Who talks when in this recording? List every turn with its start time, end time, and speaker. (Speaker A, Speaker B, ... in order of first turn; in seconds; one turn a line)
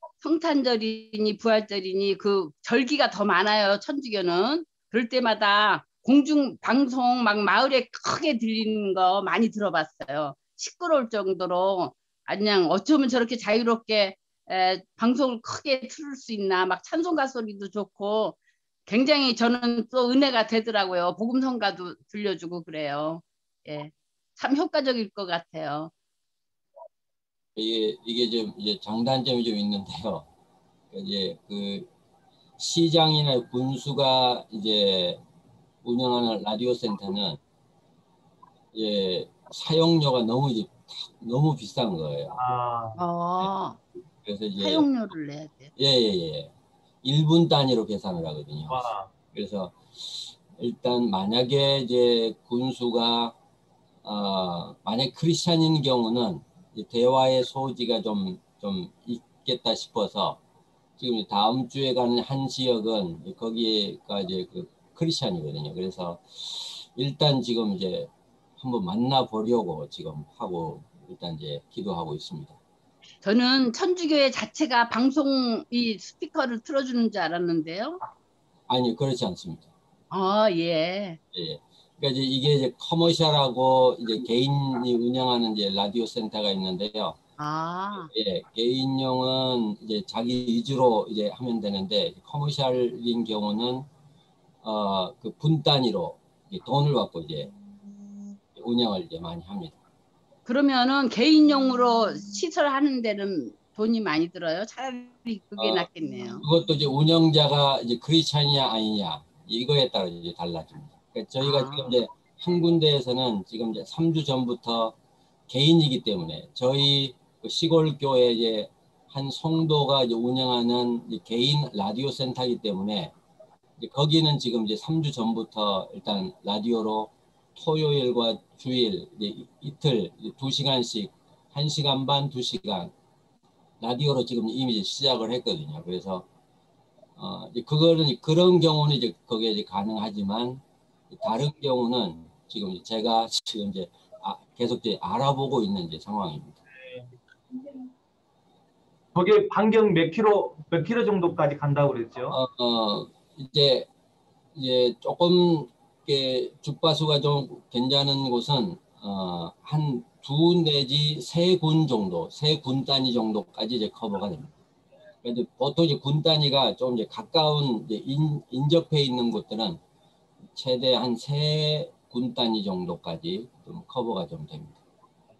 Speaker A: 0.2-25.9
Speaker B: 27.6-30.3
Speaker B: 30.9-31.9
Speaker B: 32.6-35.2
Speaker B: 35.8-37.4
Speaker B: 38.7-42.4
Speaker C: 42.3-43.0
Speaker A: 43.0-43.8
Speaker B: 44.2-44.9
Speaker A: 44.6-45.7
Speaker B: 45.8-46.5
Speaker B: 47.0-48.8
Speaker C: 48.7-49.1
Speaker B: 49.3-53.4
Speaker B: 54.0-60.4
Speaker B: 61.0-72.6
Speaker A: 73.2-78.0
Speaker B: 78.7-79.7
Speaker A: 80.1-81.2
Speaker B: 81.3-87.2
Speaker A: 87.4-88.1
Speaker B: 88.1-93.9
Speaker B: 94.6-97.5
Speaker B: 98.5-99.8
Speaker A: 100.5-106.5
Speaker B: 105.6-105.9
Speaker B: 106.4-115.0
Speaker A: 111.4-112.0
Speaker B: 115.5-123.1
Speaker B: 123.8-132.9
Speaker B: 133.8-136.3
Speaker B: 137.2-146.6
Speaker C: 146.7-147.1
Speaker C: 149.2-152.4
Speaker B: 152.3-153.9
Speaker B: 154.6-164.5
Speaker B: 165.2-169.8
Speaker B: 170.6-174.8